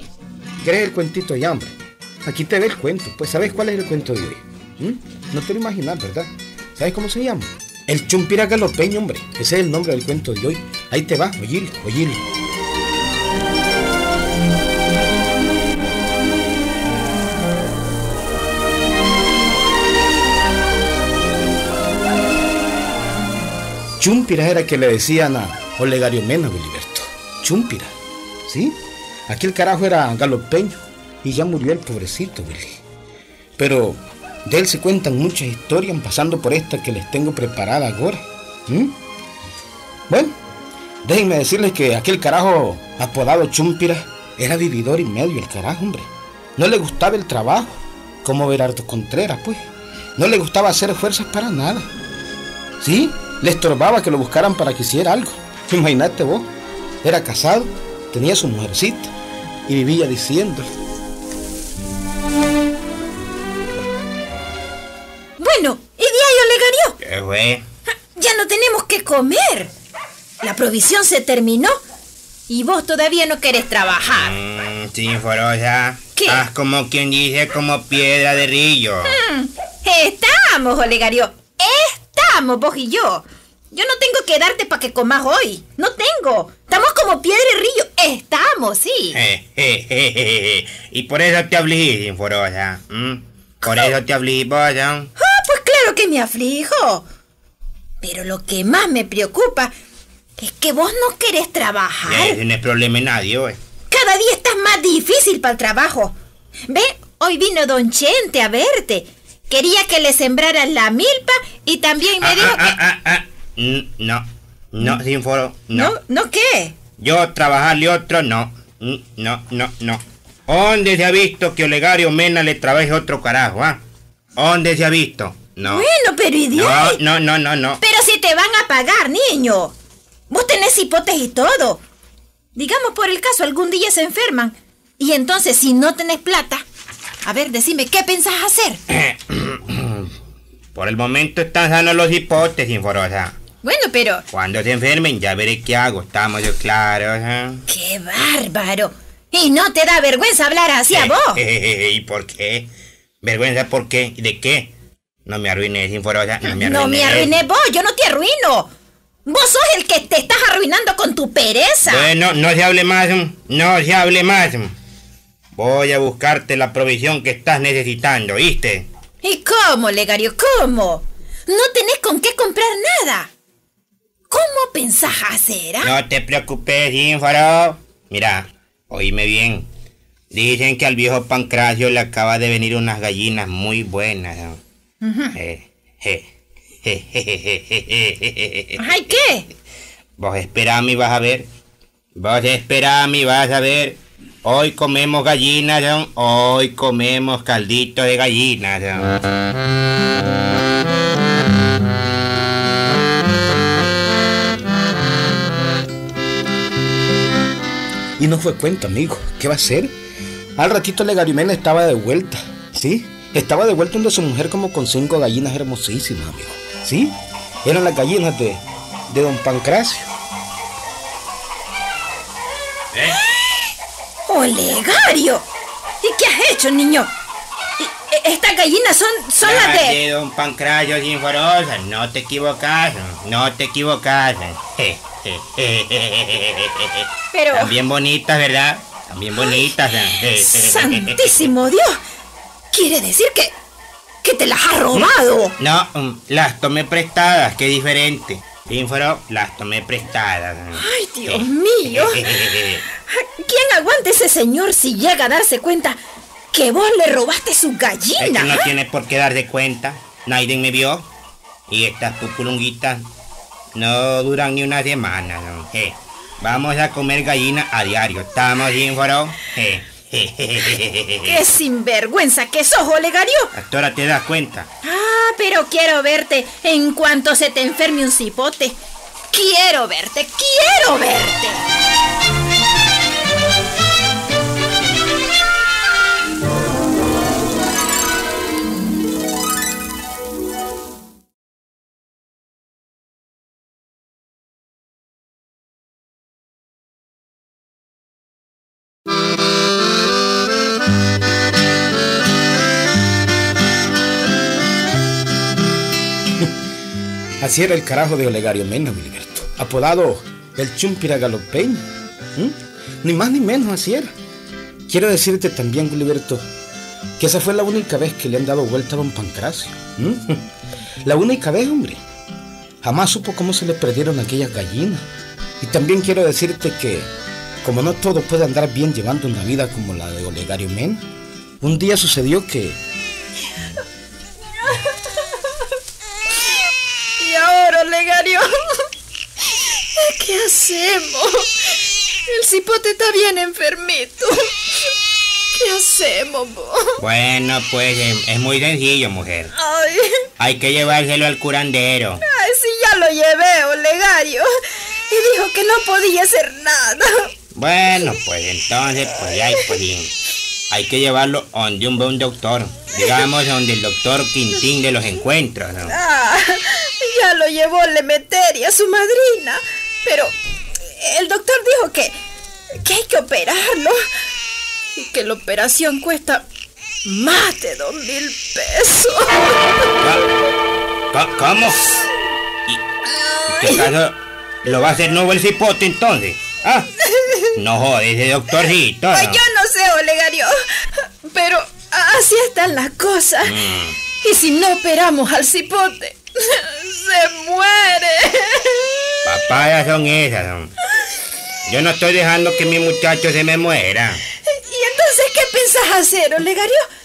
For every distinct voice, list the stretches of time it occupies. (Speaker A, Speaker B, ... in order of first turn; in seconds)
Speaker A: 0.6-12.2, 24.0-27.9, 28.5-28.8, 29.3-32.8, 33.6-39.0, 40.1-40.4, 41.0-51.9, 52.8-56.5, 57.0-59.1, 59.7-60.7, 208.2-209.9, 210.6-217.1, 217.7-220.1, 307.4-314.1, 314.9-316.5, 317.2-320.4, 321.1-322.0, 322.8-325.1, 325.6-327.1, 327.6-331.0, 331.6-332.8
Speaker B: 65.4-67.0, 68.2-69.7, 70.4-71.8, 72.5-74.3, 76.2-76.5, 79.1-89.2, 93.7-93.9, 95.2-97.0, 98.0-99.7, 100.4-102.4, 103.9-106.1, 106.7-112.8, 115.7-116.8, 125.6-127.0, 127.8-129.7, 130.3-131.8, 132.6-136.6, 137.2-138.8, 143.6-144.2, 147.7-151.4, 156.4-158.7, 159.3-162.1, 169.2-173.3, 174.3-175.9, 185.0-185.3, 188.8-189.5, 224.3-225.5, 226.0-227.1, 227.8-230.0, 237.3-237.8, 239.4-239.6, 240.3-242.0, 242.7-243.5, 244.2-245.5, 250.7-256.0, 256.5-258.7, 271.2-273.5, 274.8-278.8, 279.3-281.6, 337.2-338.9, 340.0-341.5, 342.3-344.5, 345.6-347.0, 349.6-350.3, 352.3-354.6, 355.1-357.3, 365.9-372.2, 372.7-374.0, 375.0-376.4, 377.1-379.6, 383.1-383.9, 387.0-387.5, 389.1-393.6, 394.2-399.2, 404.5-406.9
Speaker C: 67.0-67.6, 74.1-79.2, 89.1-95.1, 102.1-103.6, 112.2-116.0, 117.0-123.8, 124.4-125.9, 126.5-127.8, 138.9-140.1, 140.7-143.4, 144.3-147.6, 150.9-152.7, 153.2-154.7, 155.3-157.3, 161.9-164.7, 165.6-168.9, 175.8-179.7, 180.3-184.6, 185.3-186.3, 186.8-188.9, 190.2-191.5, 192.2-199.2, 229.4-241.4, 244.9-252.8, 258.2-261.1, 261.7-263.0, 263.8-271.4, 273.5-274.7, 347.0-349.5, 350.4-352.2, 357.5-360.1, 360.7-366.0, 380.0-380.2, 381.1-381.8, 383.5-386.9, 387.6-389.4, 393.4-394.0, 399.2-400.7, 401.7-404.2